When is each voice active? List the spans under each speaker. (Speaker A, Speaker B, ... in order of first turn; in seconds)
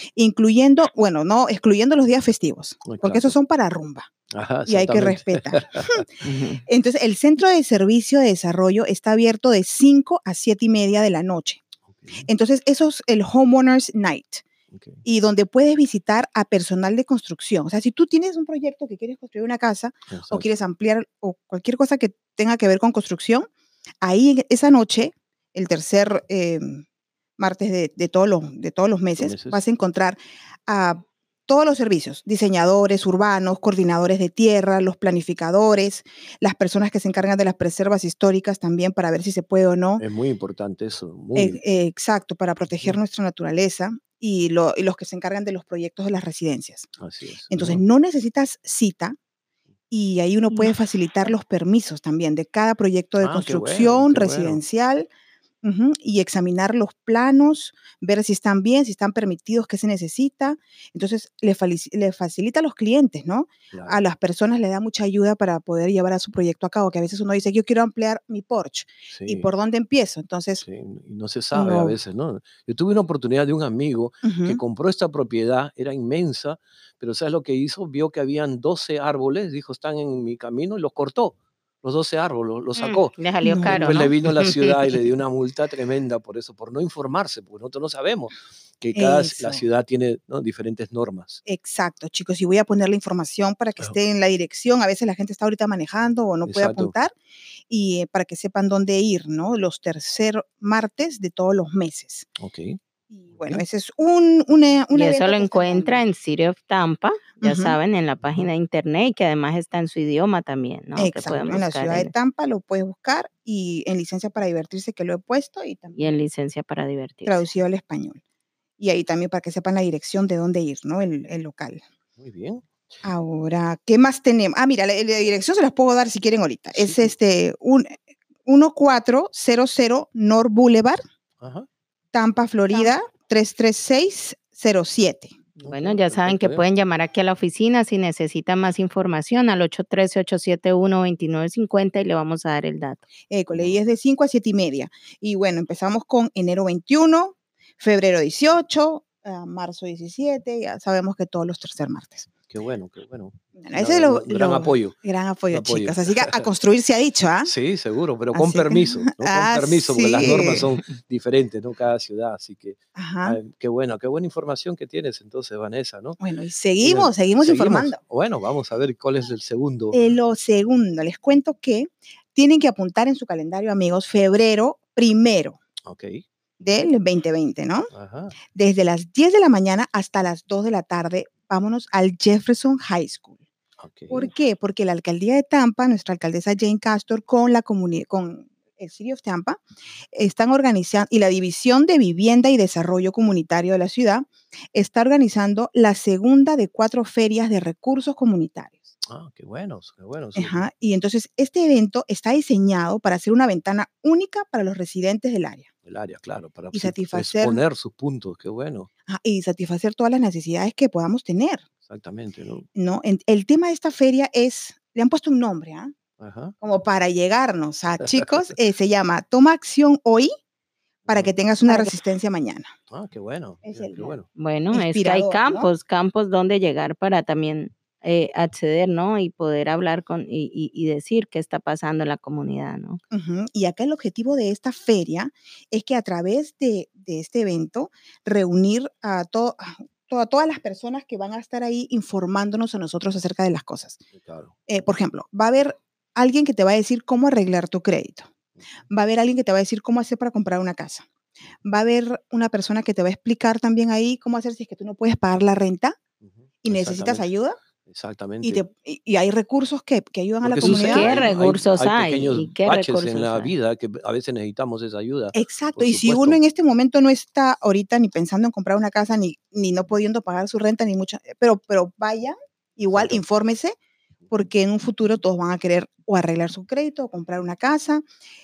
Speaker A: 0.2-4.1, 4.7-11.6, 12.2-14.4, 15.1-23.5, 24.0-26.8, 27.4-40.0, 41.4-46.9, 47.5-49.2, 49.9-55.1, 55.6-70.7, 71.5-72.0, 74.2-74.6, 83.4-84.1, 89.0-89.6, 91.5-97.2, 97.7-102.3, 103.1-106.0, 107.4-107.8, 111.0-116.1, 117.2-118.2, 118.8-121.8, 123.0-131.0, 132.1-135.4, 143.3-152.3, 153.6-157.5, 158.3-160.7, 163.0-163.4, 166.2-168.0, 169.9-175.6, 176.6-177.9, 178.5-183.4, 184.1-189.6, 190.1-198.9, 200.4-205.7, 206.7-207.6, 209.1-211.7, 212.8-215.9, 216.6-220.3, 221.1-222.7, 223.6-224.2, 224.7-225.7, 233.1-244.0, 244.7-248.3, 248.9-251.1, 251.7-256.0, 256.6-257.6, 258.4-261.2, 265.3-273.8, 274.3-278.1
Speaker B: 2.9-3.4, 4.3-6.0, 11.9-12.2, 14.7-15.0, 20.1-20.5, 29.2-29.6, 40.0-41.6, 47.0-47.8, 53.2-54.6, 63.7-64.0, 69.1-69.5, 70.6-91.4, 96.5-96.9, 102.4-102.8, 103.4-103.6, 122.2-122.7, 126.8-127.1, 131.4-131.7, 135.6-136.6, 143.5-143.8, 152.5-155.0, 155.5-156.5, 157.4-166.2, 166.8-170.0, 175.9-176.2, 177.9-178.3, 183.8-184.3, 199.0-200.7, 205.8-208.9, 211.8-212.7, 216.2-216.6, 221.1-221.3, 222.9-224.3, 244.1-244.5, 256.2-257.3, 257.9-258.6, 260.4-266.4, 272.9-273.2
Speaker C: 6.2-6.6, 82.8-84.8, 105.0-112.1, 116.0-117.4, 135.6-143.0, 221.7-221.9, 224.4-233.0, 260.6-263.5